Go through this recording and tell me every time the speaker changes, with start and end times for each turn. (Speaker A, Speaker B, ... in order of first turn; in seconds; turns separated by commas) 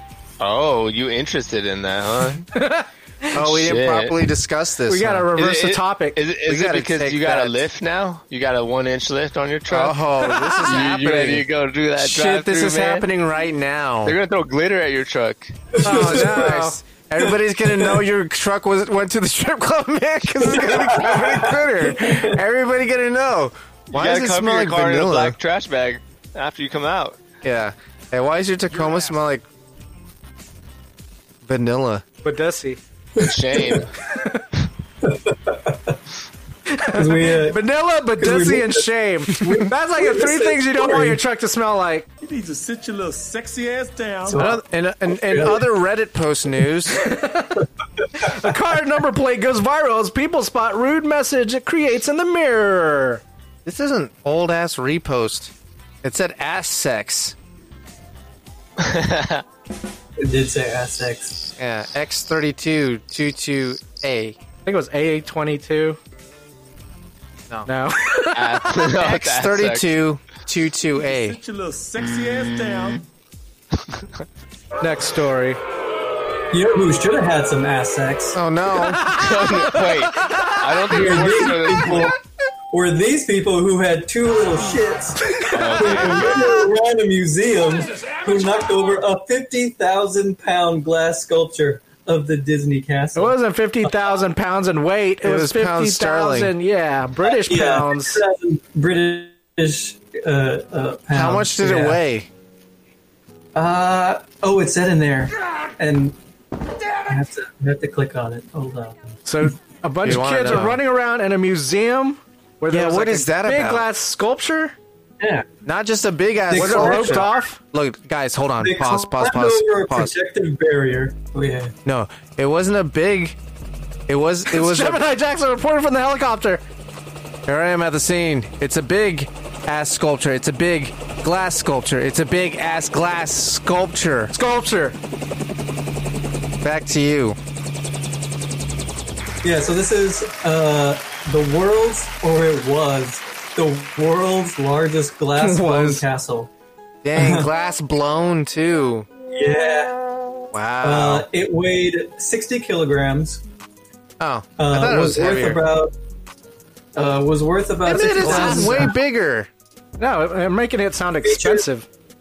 Speaker A: 0.4-2.5, Speaker B: 2.6-3.4, Speaker C: 3.3-5.3, Speaker A: 3.5-4.2, Speaker B: 4.9-6.2, Speaker A: 5.4-10.0, Speaker C: 6.5-7.7, Speaker C: 9.7-14.2, Speaker B: 10.3-10.8, Speaker A: 10.7-13.1, Speaker A: 14.0-15.8, Speaker D: 15.8-16.5, Speaker B: 15.8-16.8, Speaker C: 15.9-25.4, Speaker D: 17.2-18.0, Speaker D: 20.5-22.4, Speaker A: 23.9-27.2, Speaker C: 27.4-29.4, Speaker C: 31.4-32.0, Speaker B: 32.2-32.8, Speaker D: 33.2-33.8, Speaker A: 33.2-33.9, Speaker B: 34.0-34.5, Speaker D: 35.0-36.0, Speaker B: 36.7-42.1, Speaker D: 37.0-37.6, Speaker D: 38.2-41.2, Speaker E: 42.3-44.3, Speaker D: 44.3-45.6, Speaker C: 44.4-47.0, Speaker B: 46.9-53.2, Speaker C: 53.7-55.5, Speaker C: 56.0-57.4, Speaker A: 58.8-59.4, Speaker D: 60.2-61.5, Speaker C: 61.6-64.4, Speaker B: 64.7-66.0, Speaker B: 67.7-68.9, Speaker A: 68.3-70.0, Speaker C: 68.9-71.4, Speaker E: 71.1-73.0, Speaker B: 74.8-75.6, Speaker D: 76.5-78.4, Speaker C: 78.3-79.0, Speaker B: 79.0-80.7, Speaker A: 79.1-82.1, Speaker D: 80.9-82.2, Speaker D: 82.7-93.9, Speaker B: 85.3-85.6, Speaker A: 85.5-86.5, Speaker B: 93.2-98.2, Speaker C: 95.2-96.5, Speaker D: 97.2-102.0, Speaker C: 101.1-102.3, Speaker D: 103.5-106.2, Speaker D: 107.0-109.1, Speaker B: 109.2-114.8, Speaker C: 110.0-110.8, Speaker C: 112.7-113.9, Speaker D: 115.2-115.5, Speaker C: 115.7-120.1, Speaker D: 116.5-117.3, Speaker B: 116.6-117.6, Speaker D: 118.6-121.7, Speaker C: 121.8-123.4, Speaker C: 124.1-125.0, Speaker B: 124.5-126.6, Speaker C: 127.5-134.3, Speaker B: 134.3-135.0, Speaker C: 136.6-137.4, Speaker D: 139.4-146.5, Speaker C: 145.4-146.0, Speaker C: 147.0-149.1, Speaker D: 147.2-147.5, Speaker D: 149.3-150.0, Speaker C: 150.5-151.3, Speaker D: 150.8-153.4, Speaker C: 154.2-155.6, Speaker D: 154.6-155.9, Speaker D: 156.9-158.9, Speaker C: 157.8-159.5, Speaker B: 158.2-158.9, Speaker B: 160.0-161.9, Speaker D: 161.2-161.7